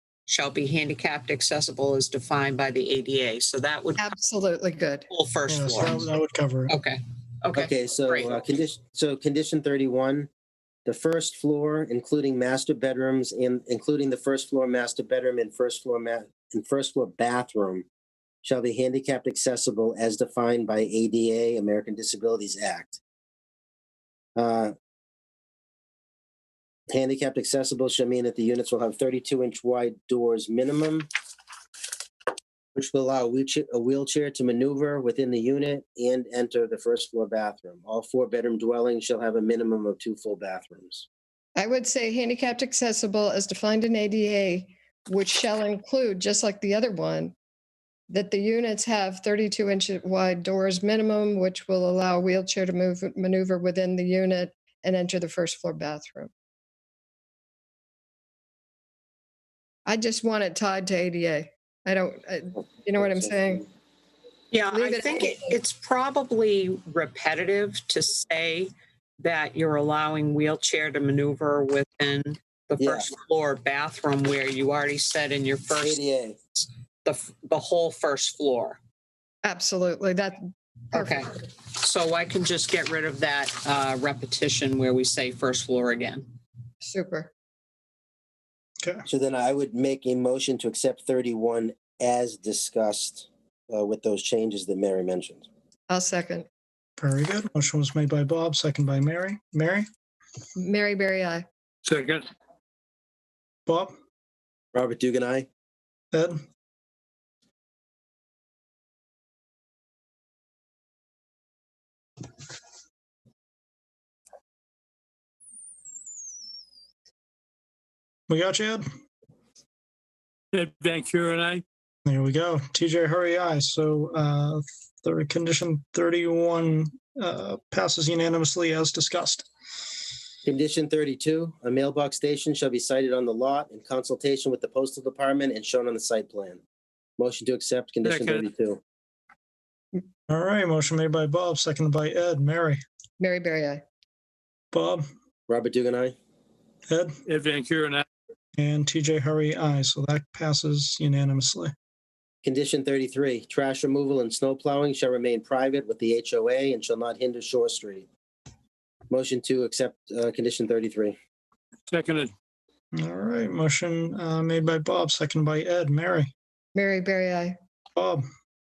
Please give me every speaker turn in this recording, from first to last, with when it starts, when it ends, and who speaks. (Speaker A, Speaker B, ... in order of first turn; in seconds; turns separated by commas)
Speaker A: 0.3-4.1, Speaker B: 4.0-5.1, Speaker A: 5.1-6.1, Speaker C: 5.5-6.7, Speaker A: 6.7-8.4, Speaker D: 7.5-10.3, Speaker D: 10.9-17.9, Speaker D: 18.4-23.0, Speaker D: 24.4-24.7, Speaker D: 26.9-31.1, Speaker D: 32.8-41.1, Speaker B: 41.6-47.4, Speaker B: 48.1-56.3, Speaker B: 59.9-63.7, Speaker A: 64.5-76.0, Speaker B: 64.7-65.6, Speaker D: 72.8-73.1, Speaker D: 75.8-76.4, Speaker A: 76.6-78.8, Speaker B: 79.4-80.4, Speaker B: 80.9-81.2, Speaker A: 80.9-86.3, Speaker B: 86.8-87.3, Speaker D: 89.1-95.5, Speaker B: 95.9-96.5, Speaker C: 97.0-99.9, Speaker B: 100.6-101.5, Speaker E: 101.8-102.2, Speaker D: 104.7-105.5, Speaker C: 118.3-118.8, Speaker E: 120.5-121.6, Speaker C: 122.1-129.4, Speaker D: 130.4-136.6, Speaker D: 137.2-138.8, Speaker E: 138.0-138.4, Speaker C: 140.3-142.8, Speaker B: 143.2-143.8, Speaker C: 144.7-145.0, Speaker D: 145.5-146.2, Speaker E: 147.3-148.1, Speaker C: 148.6-151.7, Speaker D: 152.4-158.1, Speaker D: 159.1-161.2, Speaker E: 161.9-162.3, Speaker C: 162.9-166.3, Speaker B: 166.8-167.6, Speaker C: 168.0-168.2